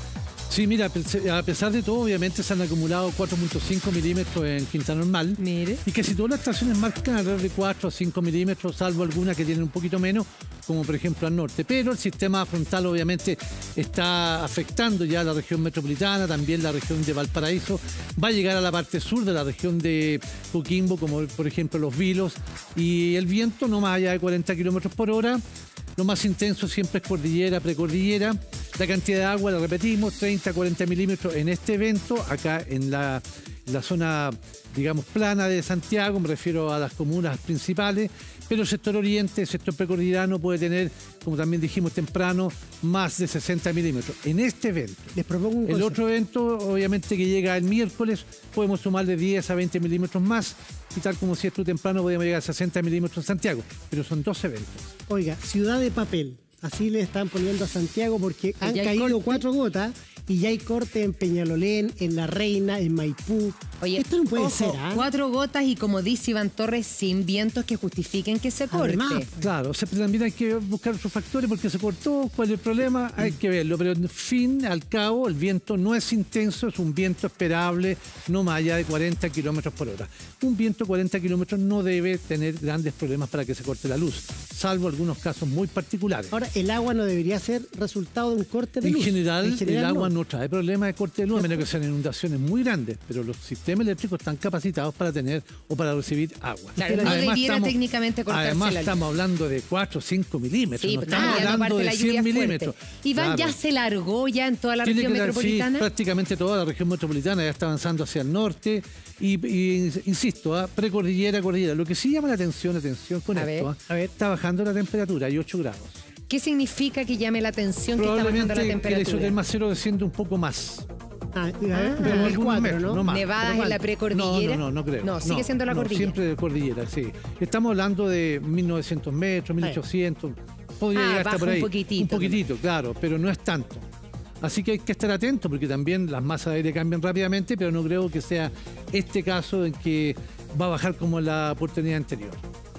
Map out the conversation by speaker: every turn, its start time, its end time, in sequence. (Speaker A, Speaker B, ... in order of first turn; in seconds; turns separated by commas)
Speaker A: 0.5-25.4, Speaker B: 5.4-5.8, Speaker A: 26.0-45.1, Speaker C: 45.2-46.0, Speaker A: 45.7-54.9, Speaker C: 55.1-65.1, Speaker B: 58.6-59.4, Speaker B: 63.8-69.3, Speaker C: 68.7-69.5, Speaker A: 69.4-86.3, Speaker C: 86.3-90.1, Speaker A: 88.8-103.6, Speaker B: 96.8-99.0, Speaker C: 97.0-97.3, Speaker B: 100.8-105.9, Speaker A: 104.8-116.0, Speaker B: 113.3-113.7, Speaker B: 116.3-119.4, Speaker A: 118.0-120.9, Speaker C: 121.3-123.0, Speaker B: 121.7-122.4, Speaker A: 122.0-133.9, Speaker B: 123.1-126.2, Speaker B: 130.9-132.4, Speaker A: 134.4-142.4